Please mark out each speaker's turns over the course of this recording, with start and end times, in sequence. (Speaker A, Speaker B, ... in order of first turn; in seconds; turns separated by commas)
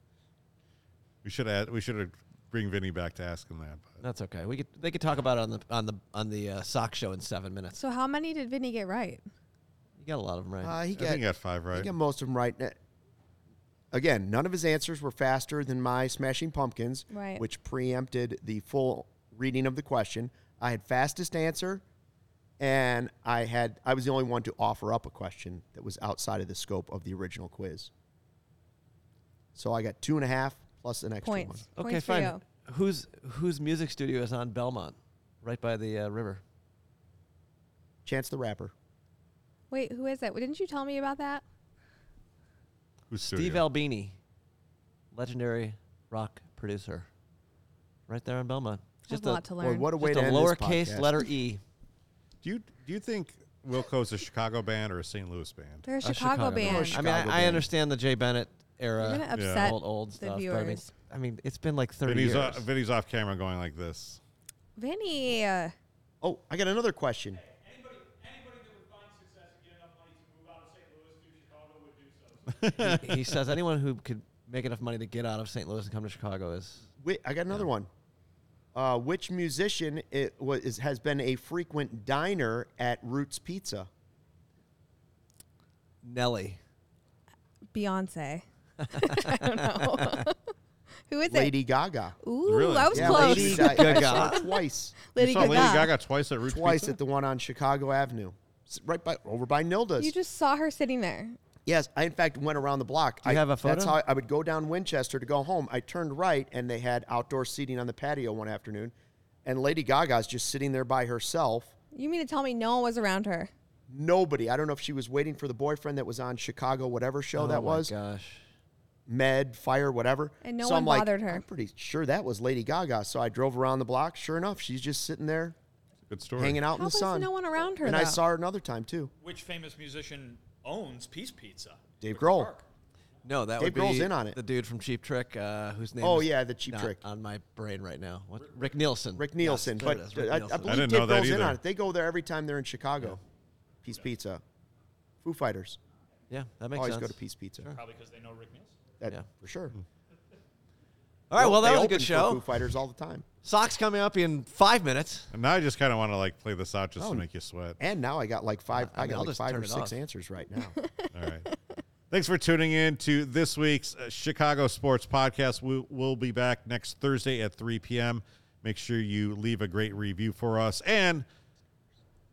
Speaker A: 1.2-4.0, Speaker B: 4.0-7.8, Speaker C: 7.8-9.2, Speaker B: 10.0-10.8, Speaker D: 10.6-12.8, Speaker A: 10.9-11.9, Speaker D: 13.9-21.8, Speaker C: 17.1-17.4, Speaker D: 22.6-27.9, Speaker D: 29.6-31.6, Speaker C: 31.2-32.4, Speaker B: 31.8-36.4, Speaker D: 38.0-38.7, Speaker C: 39.7-41.4, Speaker A: 43.1-43.6, Speaker B: 43.3-44.2, Speaker B: 45.1-47.1, Speaker B: 48.1-51.6, Speaker C: 49.1-50.0, Speaker D: 49.6-51.2, Speaker A: 52.4-55.9, Speaker C: 55.9-57.1, Speaker B: 56.0-62.7, Speaker D: 56.6-57.7, Speaker C: 59.0-60.9, Speaker A: 59.3-59.7, Speaker A: 62.0-64.2, Speaker C: 64.8-65.7, Speaker D: 66.2-67.4, Speaker E: 67.6-72.7, Speaker A: 72.5-73.3, Speaker B: 72.8-76.9, Speaker D: 77.0-77.9, Speaker D: 78.7-83.9, Speaker B: 86.0-86.6, Speaker C: 87.7-90.4, Speaker B: 89.0-90.3, Speaker C: 91.1-91.5, Speaker D: 91.3-92.2, Speaker C: 92.2-94.5, Speaker A: 92.5-93.7, Speaker D: 92.9-95.8, Speaker B: 93.0-94.5, Speaker C: 95.0-95.9, Speaker A: 95.2-97.0, Speaker D: 96.5-100.1, Speaker C: 100.0-101.4, Speaker D: 101.7-108.9, Speaker B: 103.2-104.0, Speaker D: 109.5-111.7, Speaker C: 111.9-113.5, Speaker D: 113.9-117.9, Speaker B: 117.3-118.4, Speaker D: 119.1-125.5, Speaker C: 120.4-121.4, Speaker A: 126.1-126.7, Speaker D: 126.4-127.3, Speaker C: 126.7-128.2, Speaker D: 127.8-129.1, Speaker E: 129.2-132.7, Speaker D: 132.0-132.5, Speaker B: 133.2-140.9, Speaker D: 133.6-134.4, Speaker D: 136.0-137.0, Speaker D: 139.2-143.2, Speaker A: 140.7-141.6, Speaker D: 143.8-144.4, Speaker D: 145.2-145.8, Speaker B: 146.3-147.8, Speaker D: 146.8-147.7, Speaker E: 147.7-148.8, Speaker D: 149.0-149.8, Speaker B: 151.3-152.4, Speaker D: 151.4-153.2, Speaker B: 153.4-155.3, Speaker A: 155.3-157.8, Speaker D: 157.0-157.2, Speaker D: 157.8-160.8, Speaker B: 158.7-160.0, Speaker C: 160.8-161.6, Speaker A: 161.1-161.4, Speaker A: 162.1-171.3